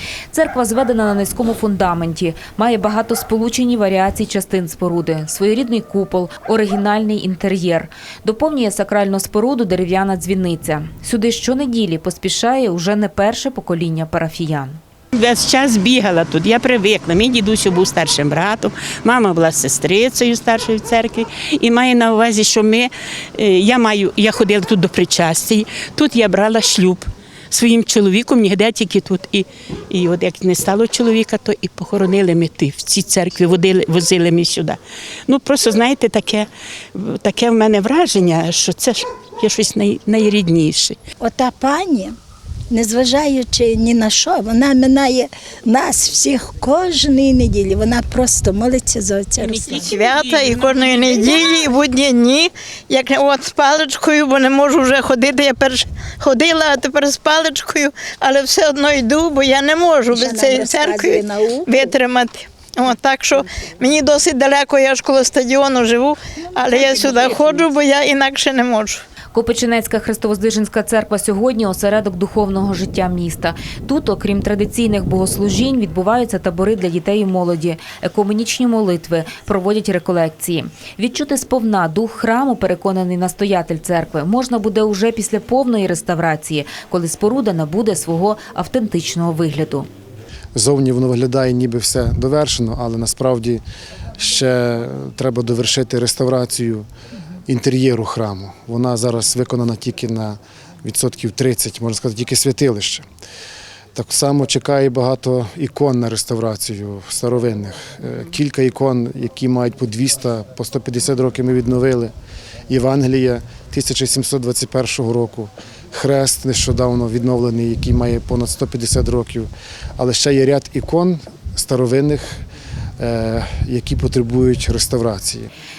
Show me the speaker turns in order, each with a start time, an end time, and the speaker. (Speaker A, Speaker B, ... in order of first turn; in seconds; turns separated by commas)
Speaker A: 0.3-14.8, Speaker B: 15.2-41.0, Speaker C: 41.2-42.1, Speaker C: 42.7-49.9, Speaker B: 49.4-51.7, Speaker D: 49.8-69.0, Speaker C: 60.1-61.9, Speaker B: 67.2-67.7, Speaker A: 69.3-89.9, Speaker E: 90.5-93.6, Speaker E: 94.2-96.9, Speaker E: 97.5-103.0, Speaker E: 103.9-112.1, Speaker E: 112.7-122.4, Speaker E: 123.0-125.5